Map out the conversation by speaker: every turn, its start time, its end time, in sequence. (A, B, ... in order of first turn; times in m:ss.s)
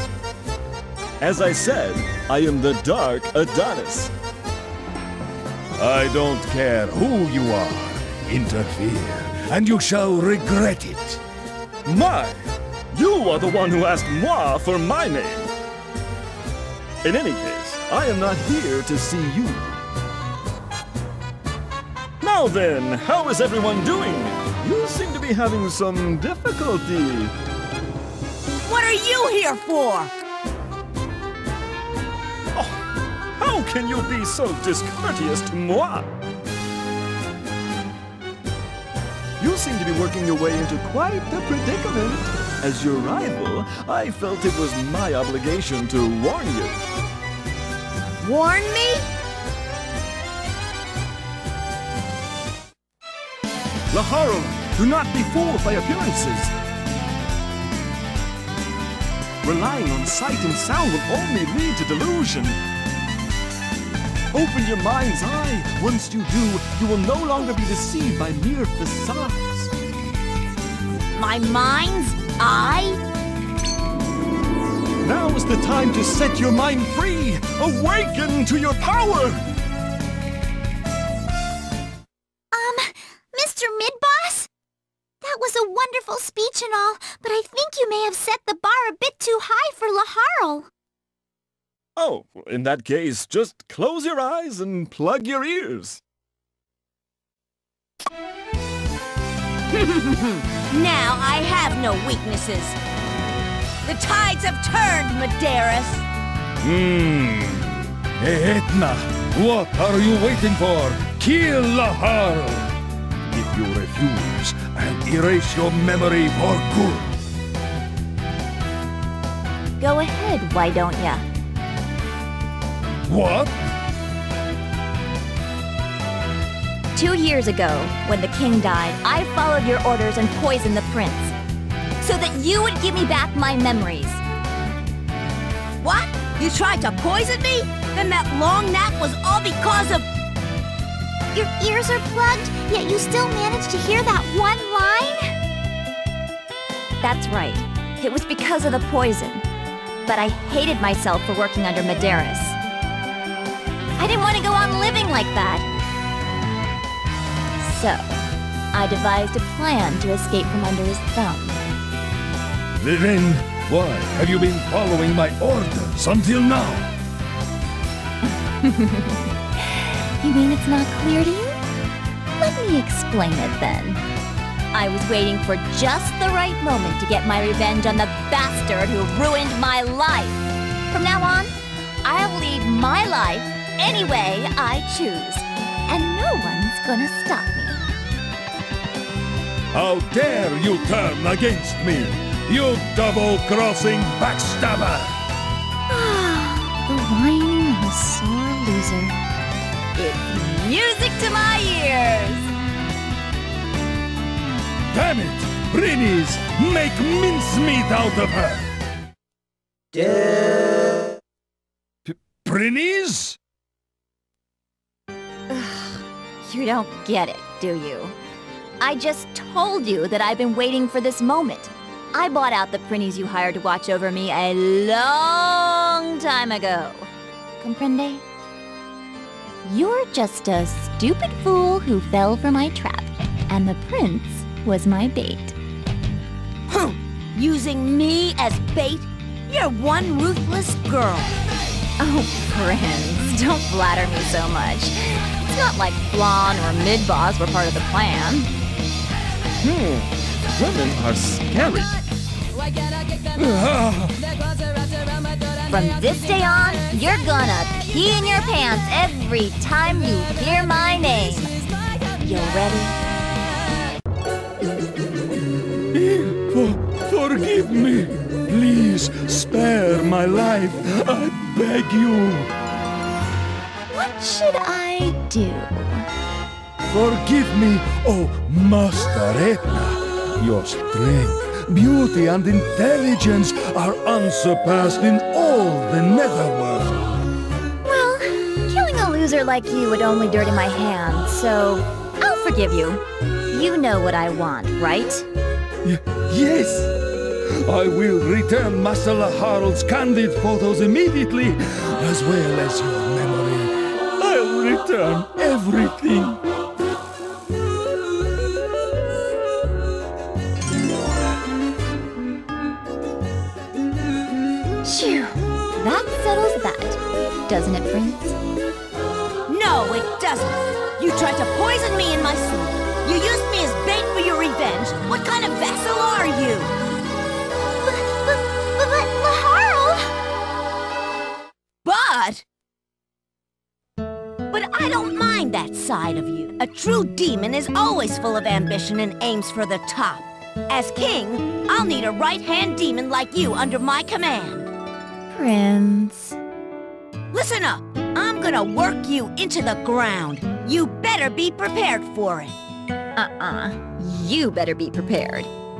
0:01.2-0:04.1 A
0:05.8-0:11.2 B
0:11.8-0:15.5 A
0:17.0-0:19.7 A
0:22.2-0:27.3 A
0:28.6-0:30.1 C
0:33.4-0:36.1 A
0:39.4-0:46.8 A
0:48.2-0:49.0 C
0:53.9-0:56.5 A
0:59.4-1:02.6 A
1:04.3-1:09.7 A
1:11.1-1:13.0 C
1:15.0-1:19.4 A
1:22.5-1:24.5 D
1:25.2-1:30.7 D
1:32.0-1:36.0 A
1:39.7-1:42.8 C
1:43.8-1:46.0 C
1:46.6-1:52.7 B
1:53.3-1:57.2 B
1:59.8-2:01.2 E
2:03.1-2:03.6 B
2:06.9-2:11.3 E
2:12.0-2:14.2 E
2:15.8-2:20.0 C
2:21.3-2:25.2 D
2:27.0-2:29.4 E
2:30.0-2:32.6 E
2:34.0-2:35.6 E
2:37.6-2:38.2 E
2:38.7-2:41.6 E
2:42.8-2:46.9 B
2:48.2-2:51.6 E
2:52.4-2:54.0 E
2:54.7-3:07.8 E
3:09.7-3:15.2 B
3:15.9-3:19.2 E
3:19.9-3:22.5 E
3:24.9-3:28.7 B
3:32.0-3:33.4 B
3:35.5-3:38.1 E
3:38.8-3:48.2 E
3:49.6-3:55.6 E
3:56.7-4:01.4 C
4:02.0-4:08.5 E
4:09.6-4:12.0 A
4:13.4-4:14.2 B
4:15.7-4:21.5 E
4:22.2-4:23.0 E
4:25.9-4:32.5 B
4:33.9-4:36.0 E
4:36.9-4:47.2 B
4:47.8-4:55.3 E
4:55.8-4:56.9 B
4:57.6-5:06.4 B
5:14.8-5:18.4 E
5:19.5-5:26.7 C
5:27.8-5:30.1 D
5:31.8-5:32.4 C
5:34.5-5:44.7 C
5:45.3-5:46.4 E
5:47.3-5:52.6 C
5:53.2-5:55.5 E